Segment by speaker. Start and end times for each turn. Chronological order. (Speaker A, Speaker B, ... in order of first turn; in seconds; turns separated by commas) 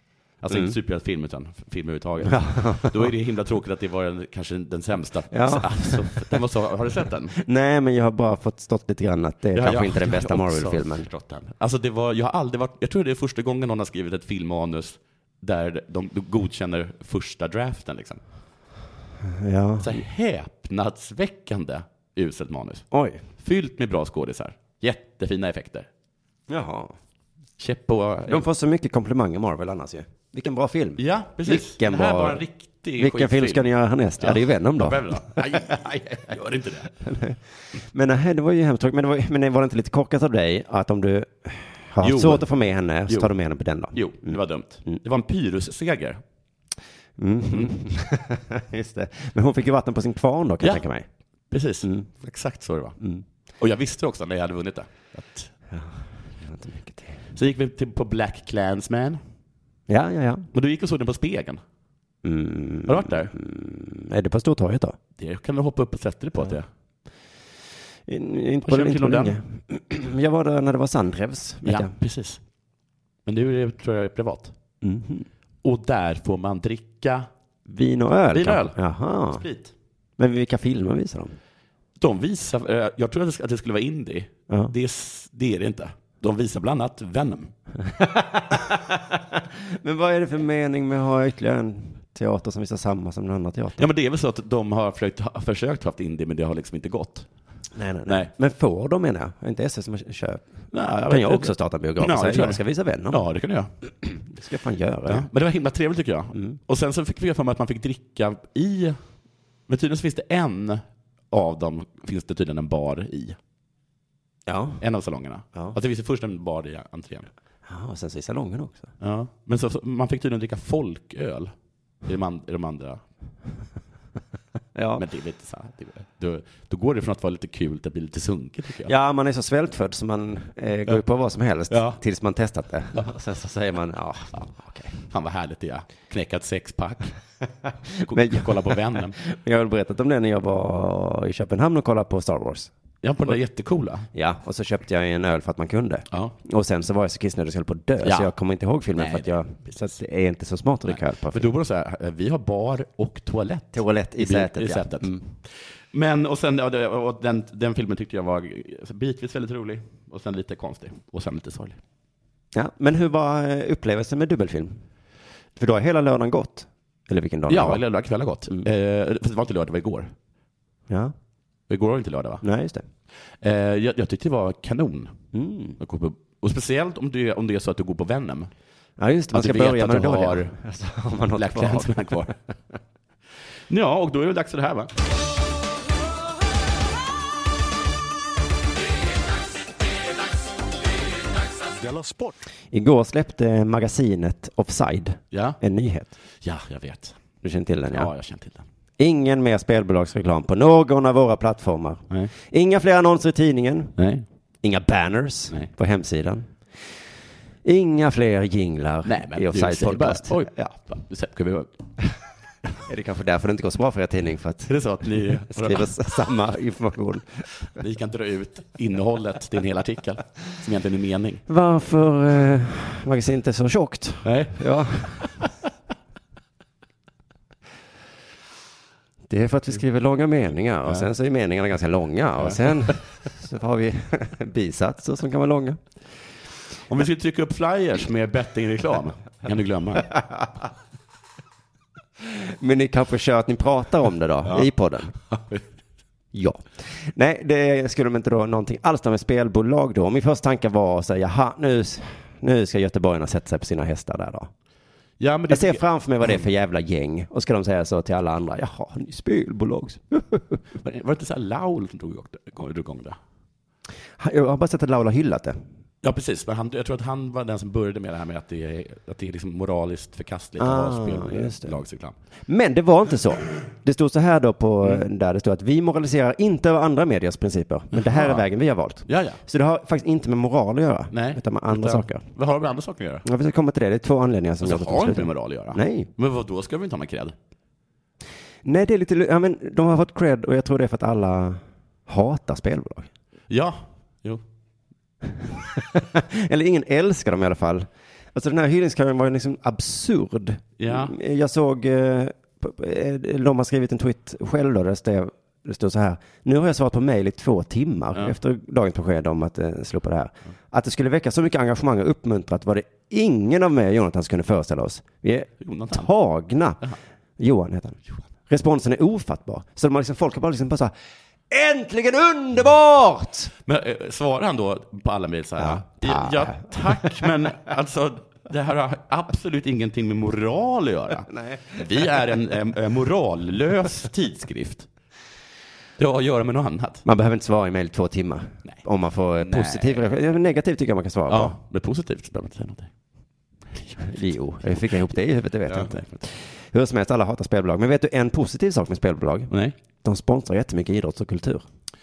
Speaker A: 0.4-7.3, Speaker B: 0.5-0.7, Speaker B: 2.3-3.1, Speaker B: 5.3-6.4, Speaker B: 7.3-11.1, Speaker A: 9.5-18.2, Speaker B: 19.2-20.0, Speaker A: 19.8-22.9, Speaker B: 22.9-23.2, Speaker A: 23.4-25.9, Speaker B: 26.5-26.9, Speaker A: 27.6-28.4, Speaker B: 28.3-32.4, Speaker A: 31.0-36.9, Speaker B: 33.0-36.4, Speaker B: 36.9-45.0, Speaker A: 42.0-42.5, Speaker A: 43.9-46.2, Speaker B: 47.2-51.1, Speaker A: 51.5-53.0, Speaker B: 51.8-52.1, Speaker A: 53.6-55.5, Speaker B: 55.7-57.2, Speaker A: 57.4-59.2, Speaker B: 59.9-60.5, Speaker A: 60.5-61.6, Speaker B: 62.2-65.0, Speaker A: 62.9-63.3, Speaker A: 65.2-66.7, Speaker B: 68.1-71.9, Speaker A: 68.7-69.4, Speaker A: 71.6-72.4, Speaker A: 73.3-74.5, Speaker B: 74.8-75.3, Speaker A: 75.6-77.3, Speaker B: 77.7-79.4, Speaker A: 78.3-78.8, Speaker A: 79.3-79.7, Speaker B: 80.2-81.4, Speaker A: 82.0-87.5, Speaker B: 84.5-84.7, Speaker B: 87.8-93.9, Speaker A: 93.8-97.3, Speaker B: 97.8-103.2, Speaker A: 98.1-98.3, Speaker A: 100.7-103.7, Speaker B: 104.1-105.3, Speaker A: 105.1-109.0, Speaker A: 109.7-113.4, Speaker B: 114.5-114.8, Speaker A: 114.8-117.3, Speaker B: 117.7-118.9, Speaker A: 119.0-121.5, Speaker A: 122.0-123.0, Speaker B: 124.8-125.0, Speaker A: 125.0-128.9, Speaker B: 128.9-135.0, Speaker A: 131.7-132.0, Speaker A: 135.1-137.1, Speaker B: 137.7-142.7, Speaker A: 138.1-139.2, Speaker A: 143.0-144.1, Speaker B: 144.1-151.5, Speaker A: 148.0-148.3, Speaker A: 148.9-149.8, Speaker A: 150.9-161.8, Speaker B: 153.7-155.2, Speaker B: 162.5-164.8, Speaker B: 165.6-167.8, Speaker A: 167.5-170.1, Speaker B: 170.9-171.1, Speaker A: 171.7-172.4, Speaker B: 172.4-172.8, Speaker A: 173.4-175.2, Speaker B: 175.3-175.8, Speaker A: 175.8-178.5, Speaker B: 179.0-182.3, Speaker A: 179.3-180.6, Speaker A: 181.4-182.3, Speaker A: 183.7-184.9, Speaker B: 192.7-196.1, Speaker A: 195.3-195.6, Speaker A: 196.4-197.2, Speaker B: 197.4-198.1, Speaker A: 197.9-198.6, Speaker B: 199.0-203.9, Speaker A: 204.0-204.2, Speaker B: 204.6-206.5, Speaker B: 207.7-210.4, Speaker A: 209.1-211.8, Speaker B: 212.8-217.5, Speaker A: 214.7-215.9, Speaker A: 217.7-221.4, Speaker B: 221.5-225.3, Speaker A: 224.2-225.5, Speaker B: 229.3-235.8, Speaker A: 232.4-233.0, Speaker A: 236.9-240.1, Speaker B: 242.2-245.2, Speaker A: 245.3-245.6, Speaker B: 246.3-254.5, Speaker A: 255.2-256.4, Speaker B: 255.5-260.6, Speaker A: 260.8-263.2, Speaker B: 264.2-265.6, Speaker A: 266.0-272.2, Speaker B: 270.6-271.8, Speaker B: 272.5-282.2, Speaker A: 277.9-278.4, Speaker A: 279.1-279.4, Speaker A: 281.1-283.2, Speaker B: 283.2-286.1, Speaker A: 284.6-287.4, Speaker B: 288.6-293.1, Speaker A: 293.5-294.4, Speaker B: 295.6-320.9, Speaker A: 300.8-301.1, Speaker A: 315.6-316.1, Speaker B: 321.5-323.5, Speaker A: 323.6-334.9, Speaker B: 325.6-327.2, Speaker B: 331.3-331.9, Speaker A: 336.0-337.1, Speaker B: 337.1-341.6, Speaker A: 339.4-340.0, Speaker A: 341.3-342.9, Speaker B: 344.0-349.5, Speaker A: 345.7-346.2, Speaker B: 350.0-351.6